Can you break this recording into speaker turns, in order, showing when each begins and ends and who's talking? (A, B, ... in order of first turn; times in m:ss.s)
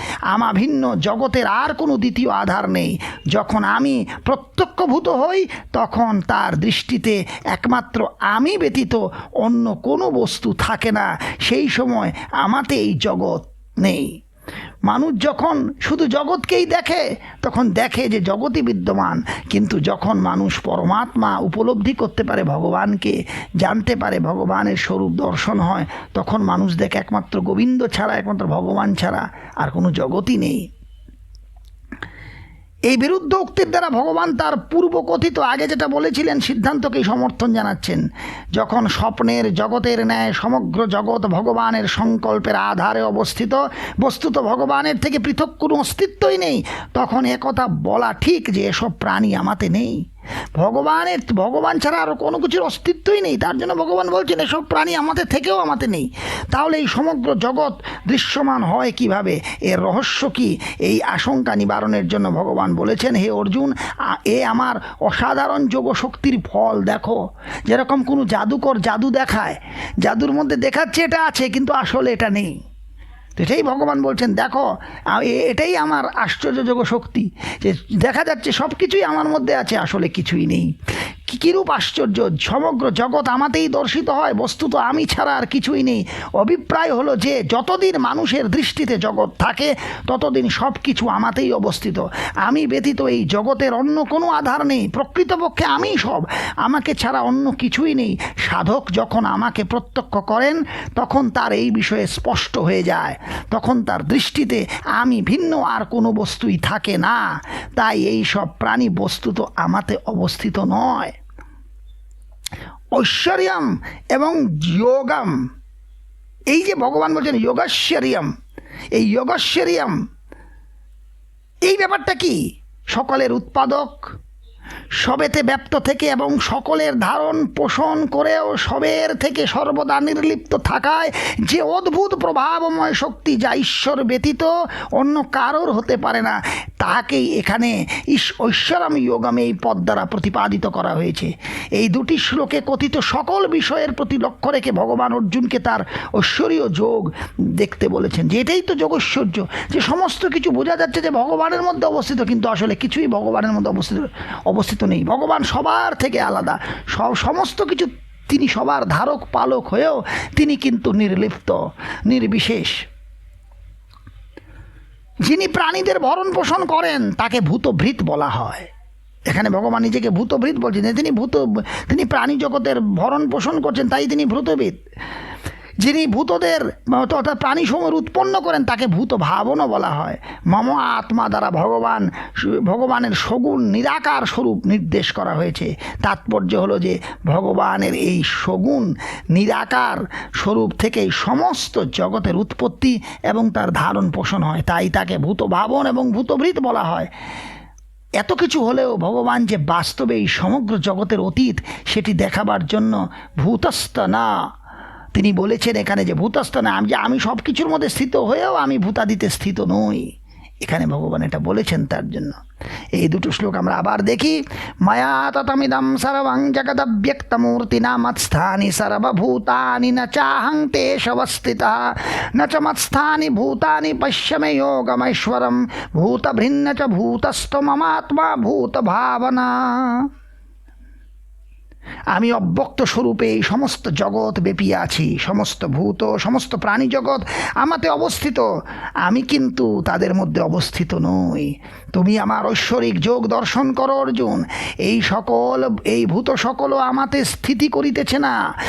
0:00.3-0:14.2 A
0:14.9-0:30.6 A
0:32.9-0:38.0 A
0:38.6-0:50.0 A
0:50.6-1:12.5 A
1:13.4-1:20.7 A
1:21.3-1:51.2 A
1:52.9-1:55.4 A
1:56.5-1:58.3 A
1:58.9-2:00.0 A
2:01.6-2:02.4 A
2:02.9-2:04.1 A
2:05.0-2:42.8 A
2:45.2-2:48.7 A
2:49.3-2:54.8 A
2:55.8-3:17.1 A
3:18.2-3:24.3 A
3:25.1-3:30.0 A
3:30.6-3:32.4 A
3:33.0-3:50.0 A
3:52.1-3:58.4 A
3:59.0-4:08.3 A